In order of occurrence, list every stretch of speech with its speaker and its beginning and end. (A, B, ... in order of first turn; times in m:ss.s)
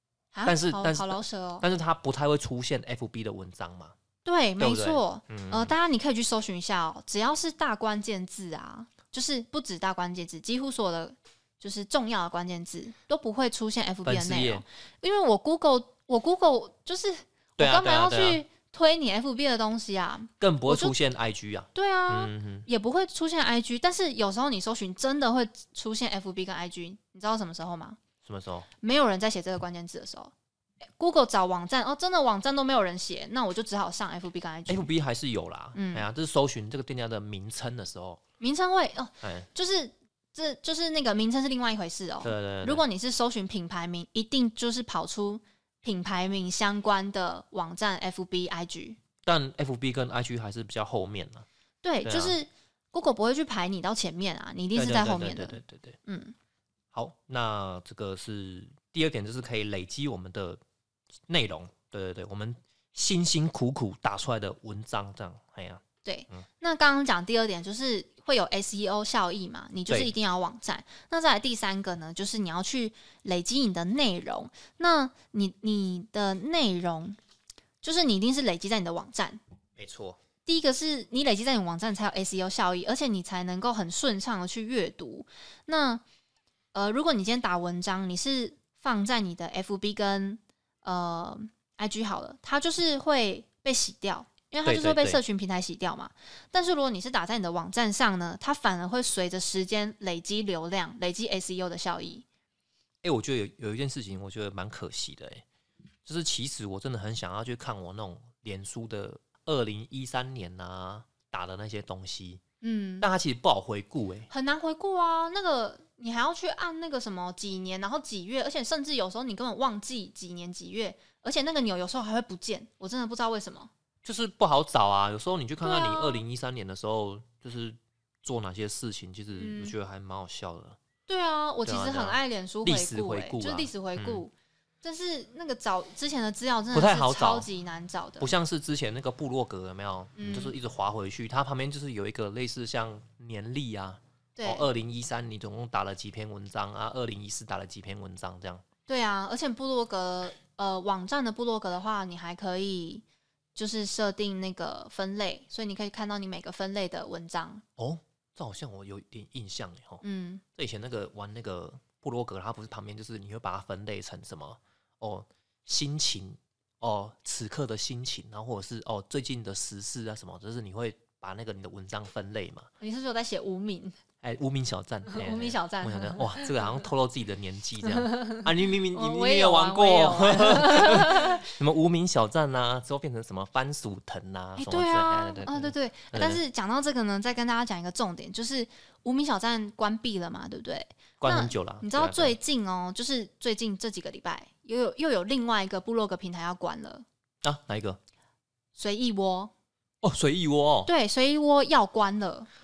0:00.3-0:01.6 A
0:00.4-0:03.9 B
0:04.2-0:21.0 A
0:04.6-0:05.7 B
0:14.0-0:14.6 B
0:17.6-0:18.4 B
0:20.4-0:22.7 B
0:21.7-0:28.0 A
0:28.2-0:28.7 B
0:28.8-0:30.3 A
0:31.0-0:34.9 A
0:34.7-0:38.2 B
0:35.7-0:36.0 A
0:38.4-0:49.0 A
0:39.2-0:39.5 B
0:42.2-0:42.8 B
0:49.2-0:51.4 B
0:51.8-0:56.3 A
0:52.0-0:52.4 B
0:54.7-0:56.0 B
0:56.9-1:00.6 B
1:01.3-1:06.4 B
1:06.0-1:17.2 A
1:17.8-1:19.4 A
1:19.8-1:20.2 B
1:20.4-1:26.0 A
1:26.7-1:42.2 A
1:34.6-1:35.2 B
1:43.0-1:45.4 B
1:46.0-1:52.4 B
1:52.6-1:53.1 A
1:53.0-1:54.3 B
1:54.3-2:03.7 A
2:04.0-2:10.8 B
2:05.6-2:06.2 A
2:09.4-2:09.7 A
2:11.1-2:14.3 A
2:11.6-2:14.2 B
2:14.8-2:18.3 A
2:16.7-2:17.5 B
2:18.2-2:28.6 B
2:20.2-2:20.5 A
2:24.4-2:24.7 A
2:28.9-2:33.0 A
2:33.5-2:37.6 A
2:37.8-2:40.0 B
2:40.0-2:40.4 A
2:40.5-2:52.7 B
2:52.8-2:54.0 A
2:54.2-3:06.4 B
2:55.1-2:56.6 A
2:57.9-3:01.4 A
3:04.6-3:17.0 A
3:11.2-3:12.4 B
3:17.4-3:18.0 B
3:18.7-3:19.5 A
3:20.0-3:20.9 B
3:20.8-3:22.5 A